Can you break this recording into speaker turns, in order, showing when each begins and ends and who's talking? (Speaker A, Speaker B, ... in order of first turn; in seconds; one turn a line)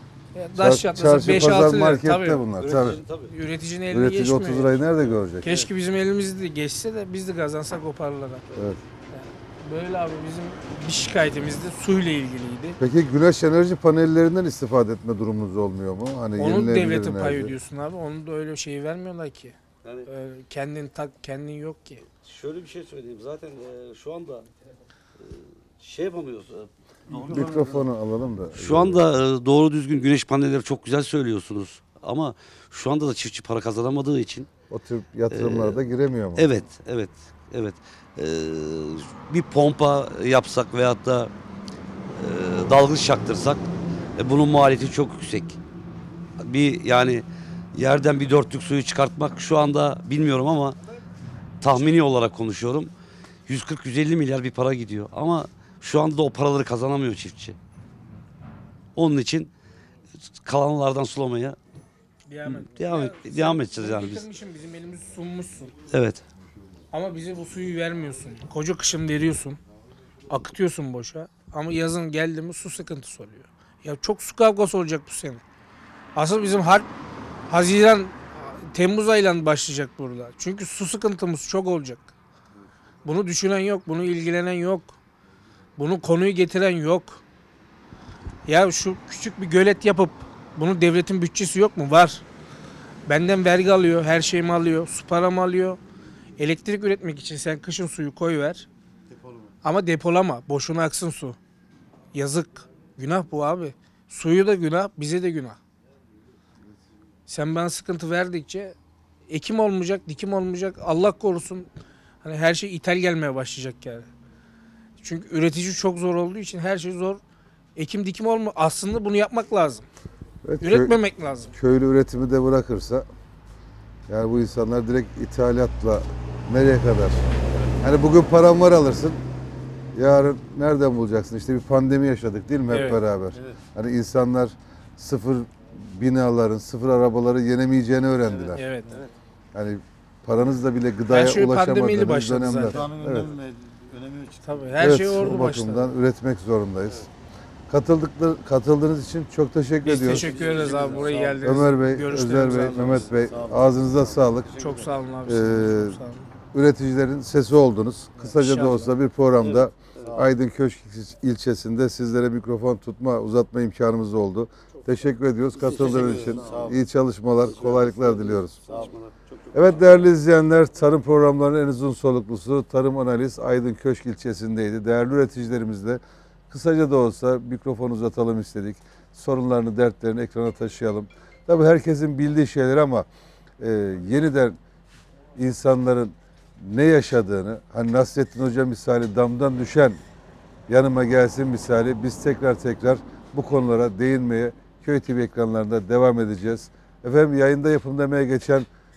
Speaker A: 0.3-2.4
Speaker B: 0.6-3.0
Speaker C: 2.6-3.3
Speaker A: 3.3-4.8
Speaker B: 3.9-5.5
Speaker A: 5.4-8.4
Speaker B: 8.6-8.8
Speaker A: 9.1-12.8
Speaker B: 12.8-17.6
Speaker A: 16.4-22.1
Speaker C: 22.2-24.5
Speaker C: 25.2-27.8
Speaker D: 27.2-27.5
Speaker B: 27.3-29.0
Speaker C: 28.5-34.5
Speaker B: 34.7-36.5
Speaker C: 35.3-35.8
Speaker C: 36.4-41.3
Speaker C: 42.1-43.7
Speaker C: 44.2-45.6
Speaker C: 46.4-47.2
Speaker C: 47.8-50.8
Speaker C: 51.6-52.9
Speaker C: 53.5-57.6
Speaker C: 59.0-59.5
Speaker C: 60.3-61.6
Speaker A: 62.3-65.8
Speaker C: 62.5-64.3
Speaker C: 65.9-66.2
Speaker A: 66.9-69.6
Speaker A: 70.3-75.4
Speaker A: 76.2-76.9
Speaker A: 77.5-82.1
Speaker A: 83.0-85.0
Speaker A: 85.8-87.2
Speaker A: 88.5-92.2
Speaker A: 93.1-95.8
Speaker A: 96.4-98.7
Speaker D: 99.1-99.5
Speaker A: 99.6-101.4
Speaker A: 102.1-105.6
Speaker A: 107.3-108.8
Speaker A: 109.3-111.7
Speaker A: 112.2-114.1
Speaker A: 115.0-117.2
Speaker A: 117.8-119.8
Speaker B: 120.4-121.0
Speaker A: 120.6-121.5
Speaker B: 121.5-123.0
Speaker B: 124.1-127.2
Speaker B: 127.8-129.2
Speaker B: 129.9-138.7
Speaker A: 132.7-133.0
Speaker D: 133.3-133.6
Speaker D: 138.2-139.1
Speaker A: 138.5-139.0
Speaker B: 139.5-143.3
Speaker A: 141.1-142.8
Speaker D: 142.7-144.9
Speaker A: 144.4-145.9
Speaker B: 144.8-147.1
Speaker B: 147.7-150.4
Speaker A: 149.8-153.1
Speaker D: 150.0-151.6
Speaker B: 151.4-154.5
Speaker D: 152.2-154.9
Speaker A: 154.5-156.3
Speaker B: 155.2-156.0
Speaker B: 156.5-168.8
Speaker A: 158.2-158.9
Speaker D: 160.0-160.3
Speaker D: 165.6-166.8
Speaker C: 165.6-166.7
Speaker C: 167.4-170.1
Speaker B: 169.5-183.1
Speaker B: 183.6-184.6
Speaker B: 185.4-190.0
Speaker B: 190.7-198.7